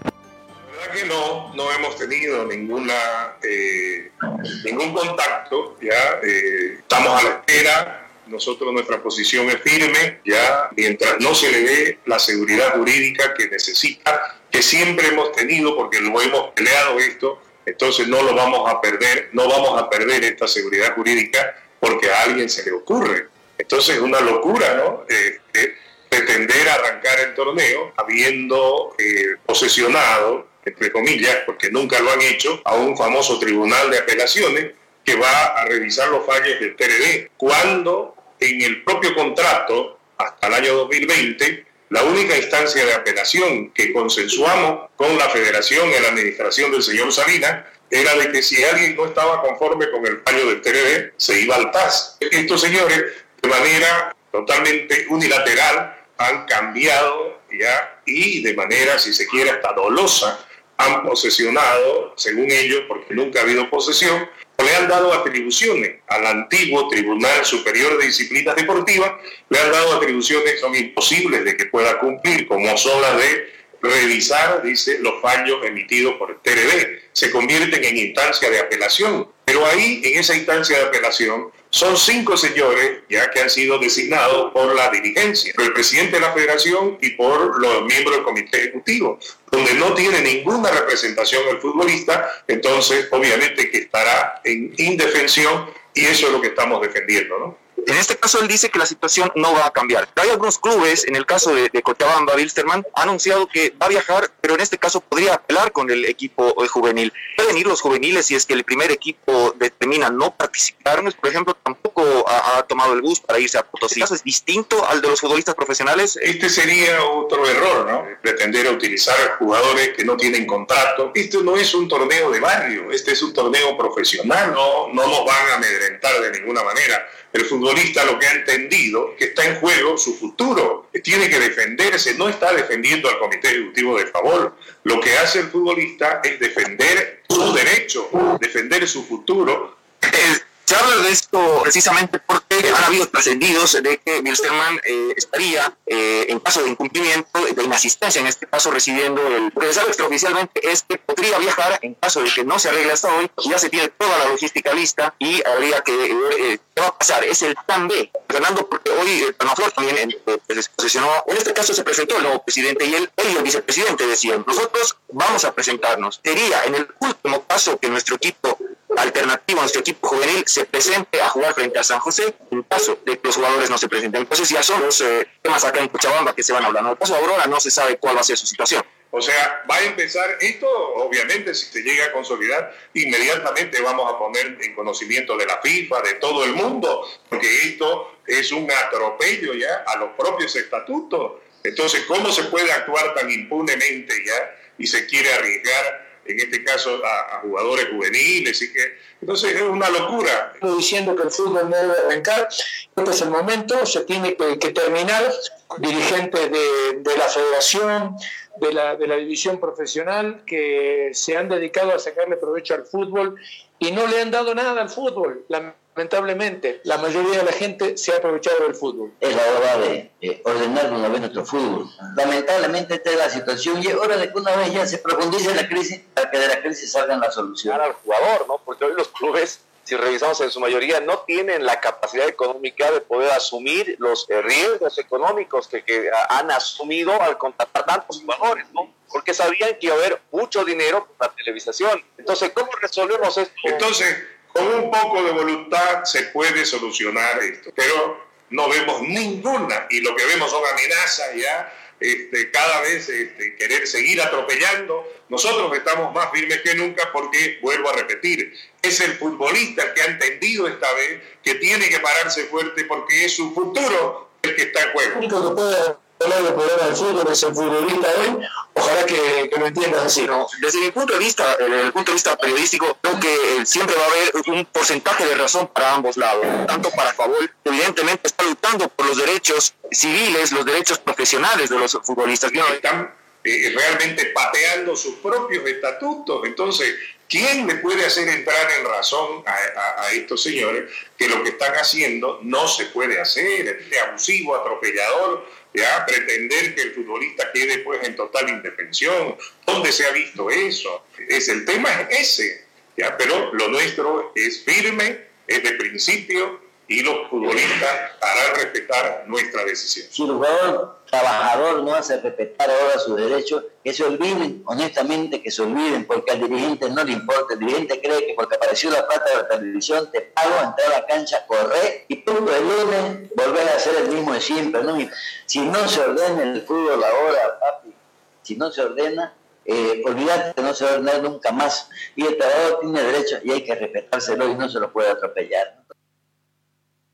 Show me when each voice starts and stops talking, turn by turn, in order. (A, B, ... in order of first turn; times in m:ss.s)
0:00.6-1:37.6 A
1:37.8-1:56.2 B
1:56.2-2:19.8 A
2:20.0-2:58.8 B
2:59.1-3:20.6 A
3:20.6-3:39.1 C
3:39.2-3:47.9 D
3:47.7-4:03.8 E
4:03.6-4:25.2 A
4:25.1-4:30.2 C
4:30.2-4:42.8 B
4:42.6-5:10.1 A
5:10.1-5:35.8 D